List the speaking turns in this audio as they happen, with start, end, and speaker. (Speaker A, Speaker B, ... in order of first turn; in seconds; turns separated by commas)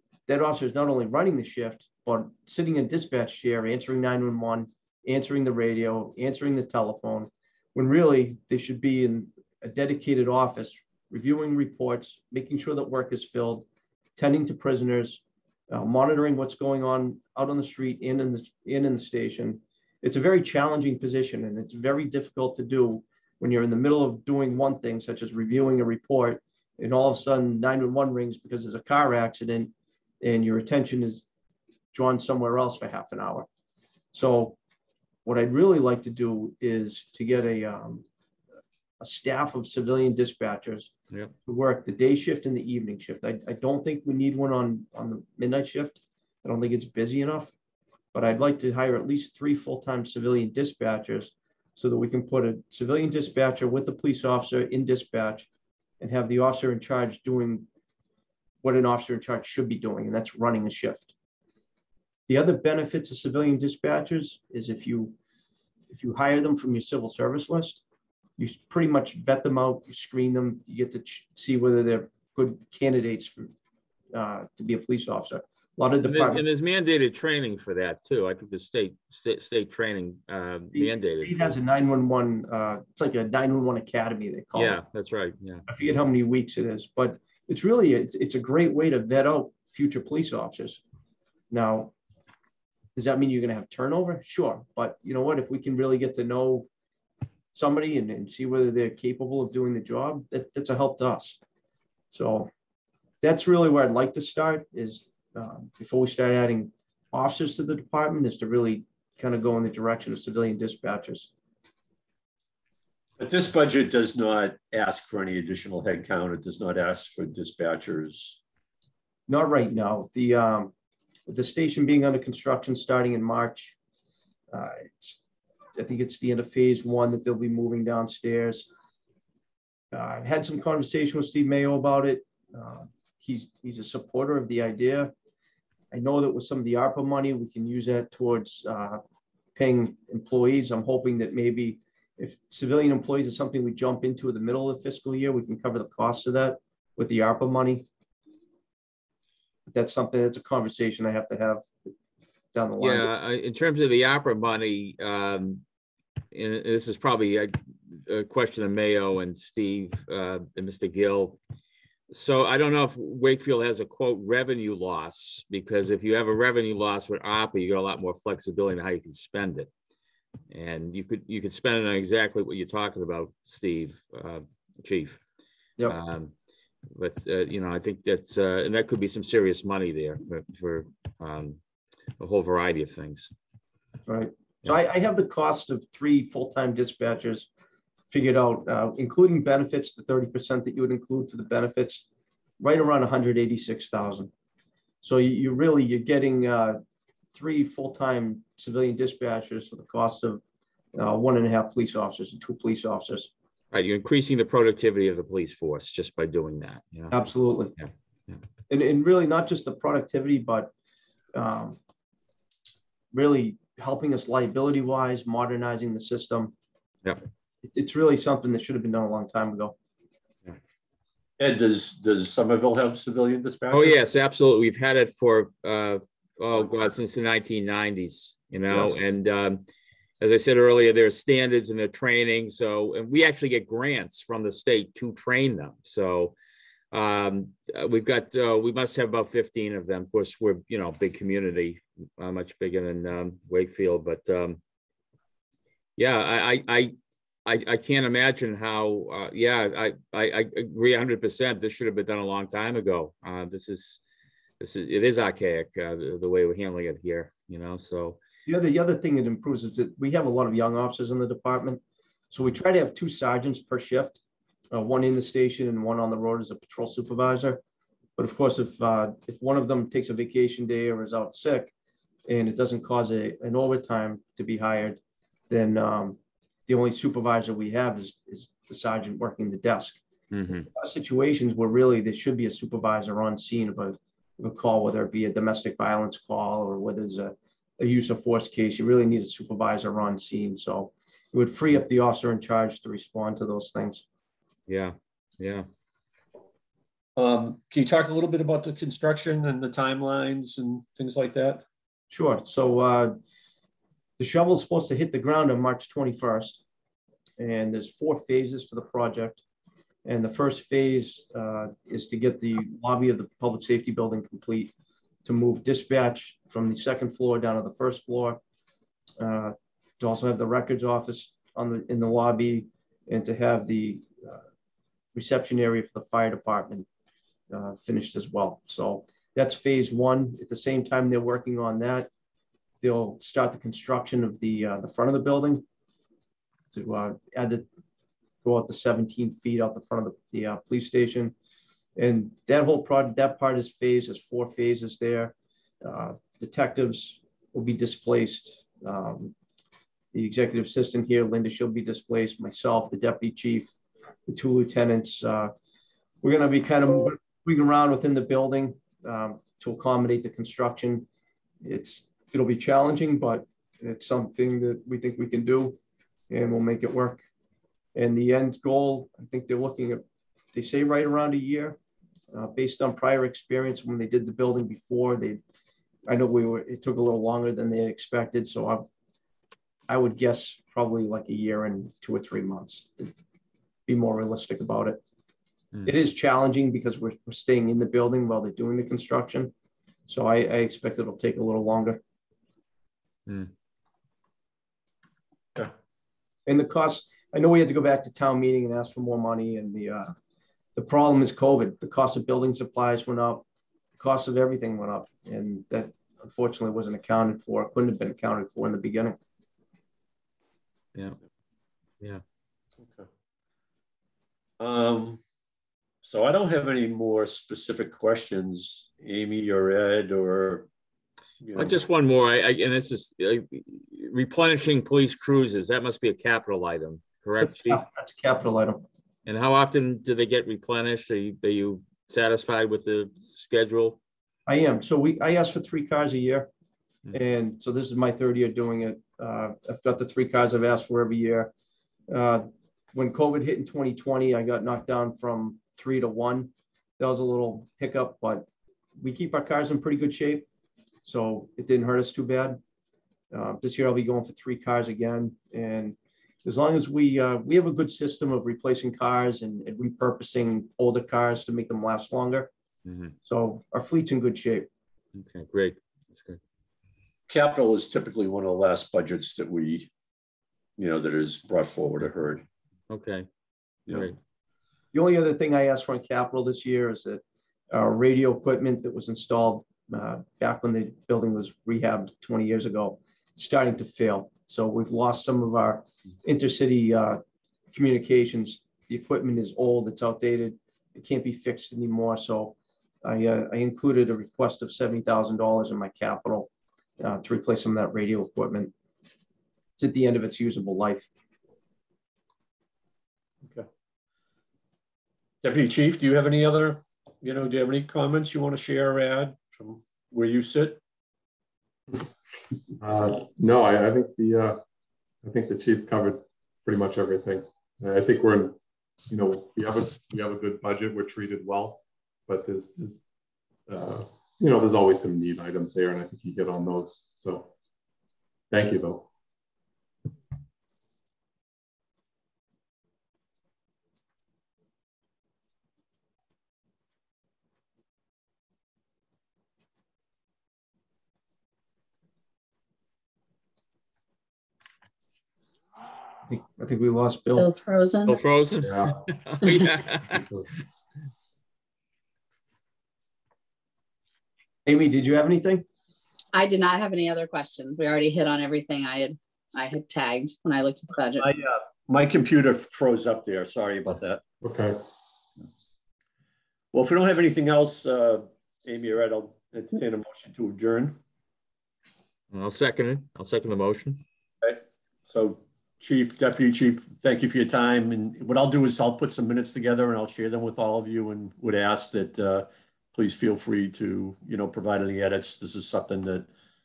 Speaker A: 0.3-31.2, Speaker A: 31.9-33.5, Speaker A: 34.1-34.6, Speaker A: 35.2-38.0, Speaker A: 39.0-40.9, Speaker A: 41.5-47.5, Speaker A: 48.1-55.5, Speaker A: 56.0-57.6, Speaker A: 58.6-61.1, Speaker A: 62.3-65.2, Speaker A: 65.9-67.8, Speaker A: 68.4-73.5, Speaker A: 74.1-76.5, Speaker B: 76.0-81.5, Speaker A: 80.7-84.8, Speaker B: 84.5-85.6, Speaker A: 85.7-90.8, Speaker A: 91.5-91.9, Speaker A: 92.9-96.7, Speaker A: 97.5-101.4, Speaker A: 102.1-102.5, Speaker A: 103.2-111.3, Speaker C: 113.2-118.4, Speaker A: 119.3-120.7, Speaker A: 121.3-123.8, Speaker A: 124.5-125.2, Speaker A: 125.8-128.7, Speaker A: 129.9-135.1, Speaker A: 135.9-139.0, Speaker A: 139.6-147.9, Speaker A: 149.7-151.7, Speaker A: 152.5-153.1, Speaker B: 152.8-155.6, Speaker B: 156.3-161.4, Speaker B: 162.1-169.7, Speaker B: 170.5-175.2, Speaker B: 175.9-176.3, Speaker B: 176.9-181.6, Speaker B: 182.2-183.3, Speaker A: 184.1-187.5, Speaker A: 188.1-192.0, Speaker A: 192.6-194.3, Speaker A: 195.0-196.8, Speaker A: 197.3-200.4, Speaker A: 200.9-203.3, Speaker B: 203.7-207.2, Speaker A: 207.1-207.7, Speaker B: 207.8-208.4, Speaker A: 208.7-210.7, Speaker A: 211.3-211.8, Speaker A: 213.1-216.5, Speaker A: 217.6-219.7, Speaker C: 221.4-224.0, Speaker B: 223.7-229.6, Speaker C: 228.7-229.0, Speaker B: 230.2-236.3, Speaker B: 236.9-244.6, Speaker B: 246.0-246.9, Speaker B: 247.4-254.0, Speaker B: 254.6-258.2, Speaker A: 258.5-264.2, Speaker A: 264.7-267.6, Speaker A: 268.2-271.7, Speaker A: 272.3-280.0, Speaker B: 280.3-280.7, Speaker A: 280.7-294.0, Speaker B: 294.7-295.6, Speaker C: 297.1-301.6, Speaker A: 302.1-303.1, Speaker A: 304.2-306.6, Speaker A: 307.4-309.4, Speaker A: 310.1-314.7, Speaker A: 315.2-318.4, Speaker A: 319.2-324.4, Speaker A: 325.1-326.9, Speaker A: 327.5-332.1, Speaker A: 332.8-335.6, Speaker A: 336.7-337.6, Speaker A: 338.4-341.3, Speaker A: 342.0-349.3, Speaker A: 350.1-353.7, Speaker A: 354.3-355.5, Speaker A: 356.2-361.1, Speaker A: 361.6-365.8, Speaker A: 366.3-367.2, Speaker A: 367.9-370.0, Speaker A: 370.5-371.8, Speaker A: 372.3-375.4, Speaker A: 376.1-378.9, Speaker A: 379.9-383.1, Speaker A: 383.9-385.0, Speaker A: 385.8-389.5, Speaker A: 390.1-392.0, Speaker B: 393.3-393.5, Speaker A: 396.4-400.1, Speaker A: 400.8-403.4, Speaker A: 404.0-409.2, Speaker C: 412.8-413.1, Speaker C: 414.6-415.2, Speaker C: 416.0-420.7, Speaker C: 421.4-421.8, Speaker B: 421.5-427.8, Speaker A: 427.4-428.8, Speaker B: 429.2-434.0, Speaker A: 434.5-436.5, Speaker A: 437.1-441.5, Speaker A: 442.1-448.4, Speaker A: 449.0-450.4, Speaker A: 451.0-452.6, Speaker A: 453.3-462.5, Speaker B: 462.9-463.1, Speaker A: 463.2-464.7, Speaker B: 465.1-466.4, Speaker C: 467.3-469.9, Speaker C: 470.8-472.4, Speaker B: 472.9-473.3, Speaker B: 473.9-474.1, Speaker A: 474.9-487.2, Speaker A: 487.7-498.7, Speaker A: 499.8-501.1, Speaker C: 505.4-510.8, Speaker D: 512.8-514.6, Speaker D: 515.2-523.0, Speaker D: 523.7-527.5, Speaker D: 528.5-529.1, Speaker A: 546.3-547.5, Speaker E: 547.4-548.2, Speaker B: 548.1-550.2, Speaker D: 548.6-549.0, Speaker D: 550.0-550.5, Speaker A: 554.6-555.6, Speaker E: 556.3-561.3, Speaker C: 561.1-564.2, Speaker D: 564.4-564.8, Speaker C: 566.7-571.0, Speaker B: 572.3-574.0, Speaker C: 574.4-586.3